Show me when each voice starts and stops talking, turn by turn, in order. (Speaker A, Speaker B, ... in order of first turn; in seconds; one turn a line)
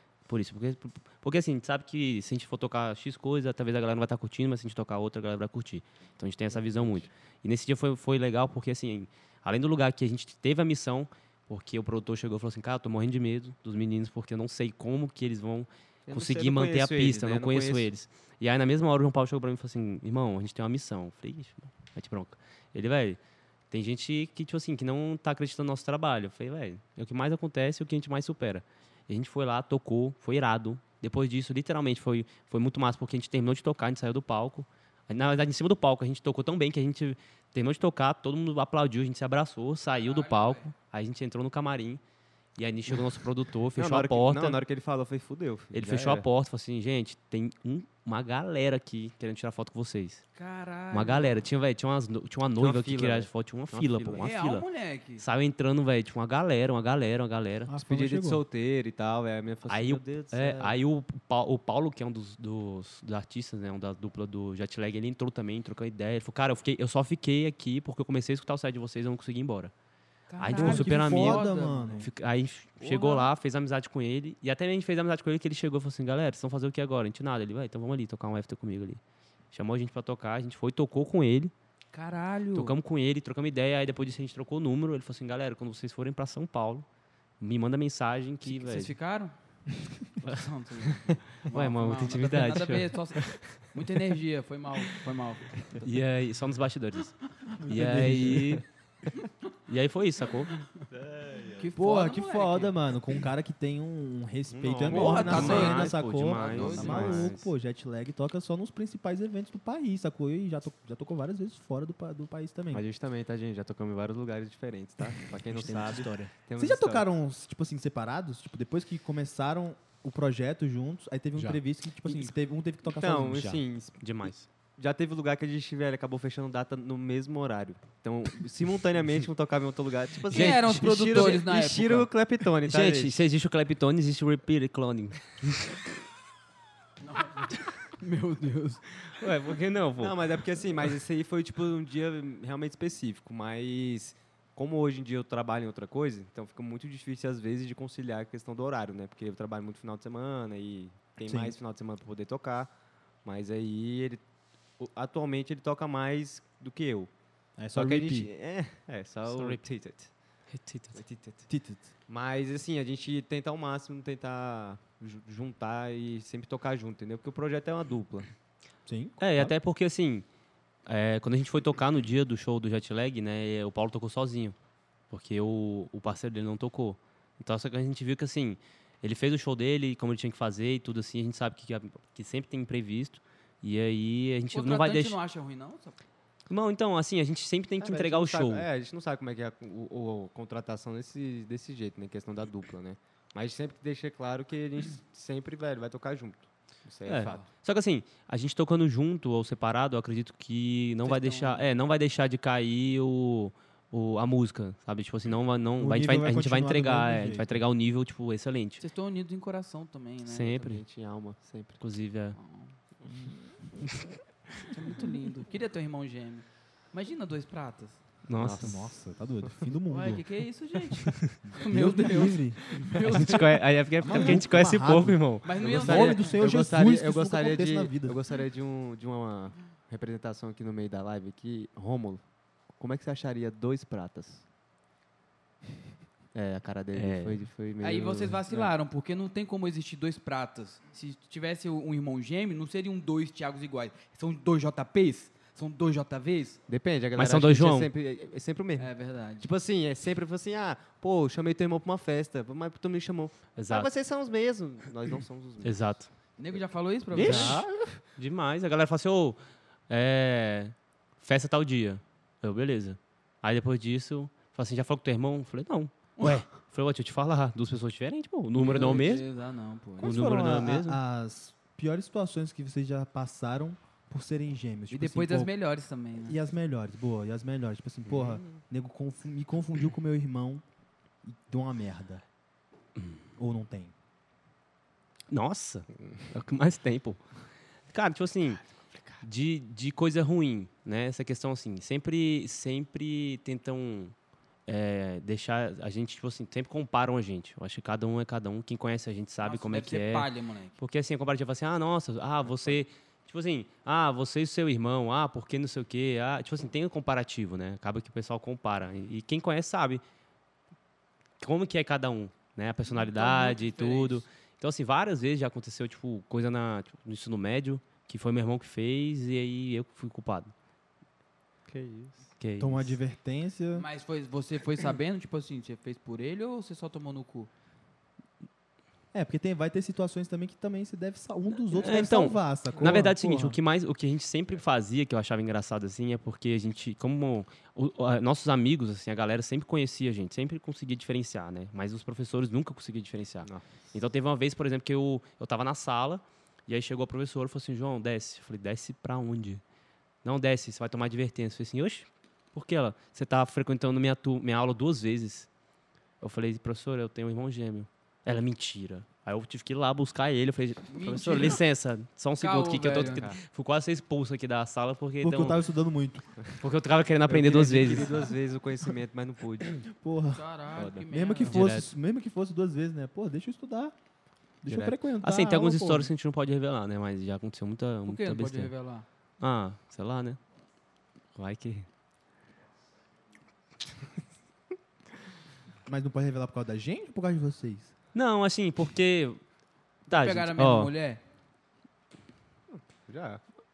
Speaker A: 0.3-23.2
Speaker B: 6.5-7.1
Speaker B: 16.1-17.9
Speaker A: 23.7-42.0
Speaker C: 40.0-40.7
Speaker A: 42.5-44.6
Speaker B: 43.8-46.3
Speaker A: 45.7-50.2
Speaker C: 50.4-51.4
Speaker A: 50.9-54.6
Speaker B: 52.6-54.3
Speaker C: 54.2-55.2
Speaker A: 55.2-57.7
Speaker D: 57.7-58.4
Speaker B: 57.8-60.7
Speaker A: 59.7-69.7
Speaker C: 70.3-72.1
Speaker A: 70.4-79.0
Speaker D: 70.5-72.1
Speaker C: 72.8-73.3
Speaker A: 79.5-81.5
Speaker C: 81.9-82.8
Speaker A: 82.5-86.8
Speaker A: 87.4-88.9
Speaker C: 88.4-89.3
Speaker C: 90.2-95.8
Speaker A: 91.4-93.6
Speaker A: 95.7-98.6
Speaker D: 97.6-98.6
Speaker A: 99.7-100.5
Speaker B: 100.9-101.7
Speaker C: 101.5-102.8
Speaker D: 101.8-112.8
Speaker B: 104.5-107.3
Speaker C: 104.9-107.2
Speaker A: 104.9-107.5
Speaker B: 112.7-117.0
Speaker A: 115.5-116.3
Speaker D: 116.5-123.4
Speaker B: 122.9-133.2
Speaker A: 123.3-124.5
Speaker A: 130.3-131.4
Speaker C: 130.3-132.1
Speaker A: 132.6-135.8
Speaker C: 137.1-138.8
Speaker A: 139.1-140.1
Speaker B: 139.9-152.7
Speaker D: 151.2-151.6
Speaker B: 153.2-154.2
Speaker B: 154.8-157.1
Speaker D: 157.6-158.3
Speaker B: 157.7-160.1
Speaker A: 159.2-159.6
Speaker A: 160.5-161.0
Speaker B: 160.9-161.5
Speaker D: 161.5-161.9
Speaker B: 162.1-168.3
Speaker D: 168.8-169.5
Speaker A: 169.2-170.2
Speaker A: 170.8-174.6
Speaker A: 175.1-185.2
Speaker C: 184.5-186.0
Speaker A: 186.5-188.7
Speaker B: 187.8-197.4
Speaker A: 197.1-208.8
Speaker C: 201.0-201.7
Speaker D: 205.8-207.6
Speaker C: 208.8-210.6
Speaker A: 210.3-210.8
Speaker B: 210.6-211.8
Speaker A: 211.8-212.4
Speaker C: 212.3-212.7
Speaker D: 213.1-213.3
Speaker C: 214.7-218.0
Speaker A: 218.3-218.8
Speaker B: 218.4-218.8
Speaker D: 218.4-220.2
Speaker C: 219.9-223.5
Speaker D: 221.4-223.0
Speaker A: 223.0-225.6
Speaker B: 223.2-224.4
Speaker D: 224.0-228.2
Speaker C: 225.4-226.3
Speaker B: 225.6-232.2
Speaker B: 232.8-234.4
Speaker B: 236.3-238.7
Speaker A: 236.9-237.4
Speaker C: 237.8-246.6
Speaker B: 246.7-255.9
Speaker A: 247.1-247.9
Speaker C: 248.8-249.5
Speaker A: 253.6-253.9
Speaker A: 255.6-256.1
Speaker C: 256.4-257.6
Speaker B: 257.1-258.0
Speaker A: 257.1-257.6
Speaker A: 258.2-259.4
Speaker A: 259.9-269.2
Speaker C: 268.5-270.2
Speaker A: 270.0-271.0
Speaker D: 270.0-275.5
Speaker C: 274.9-276.4
Speaker D: 276.2-280.6
Speaker B: 278.1-278.4
Speaker D: 281.2-282.2
Speaker D: 283.4-283.9
Speaker A: 285.3-287.2
Speaker A: 287.9-288.6
Speaker A: 289.2-294.1
Speaker A: 294.7-310.0
Speaker C: 299.4-300.7
Speaker A: 311.4-320.5
Speaker C: 312.9-314.2
Speaker B: 321.7-322.2
Speaker A: 322.4-322.9
Speaker D: 322.6-323.9
Speaker C: 323.7-327.5
Speaker D: 329.1-333.6
Speaker A: 331.7-349.6
Speaker B: 343.4-343.7
Speaker A: 350.2-355.5
Speaker A: 356.2-365.6
Speaker C: 360.9-361.6
Speaker C: 362.4-363.2
Speaker B: 363.0-363.4
Speaker D: 365.2-366.2
Speaker A: 366.6-368.2
Speaker D: 367.3-368.3
Speaker B: 367.3-369.8
Speaker D: 369.9-370.4
Speaker C: 370.3-371.6
Speaker B: 370.7-371.0
Speaker D: 371.0-373.9
Speaker A: 371.4-371.9
Speaker D: 374.6-376.1
Speaker A: 374.7-378.7
Speaker C: 378.1-379.1
Speaker A: 379.4-380.4
Speaker A: 381.4-381.9
Speaker D: 385.9-387.9
Speaker A: 388.1-389.4
Speaker C: 390.1-391.2
Speaker A: 390.1-390.9
Speaker B: 392.7-393.4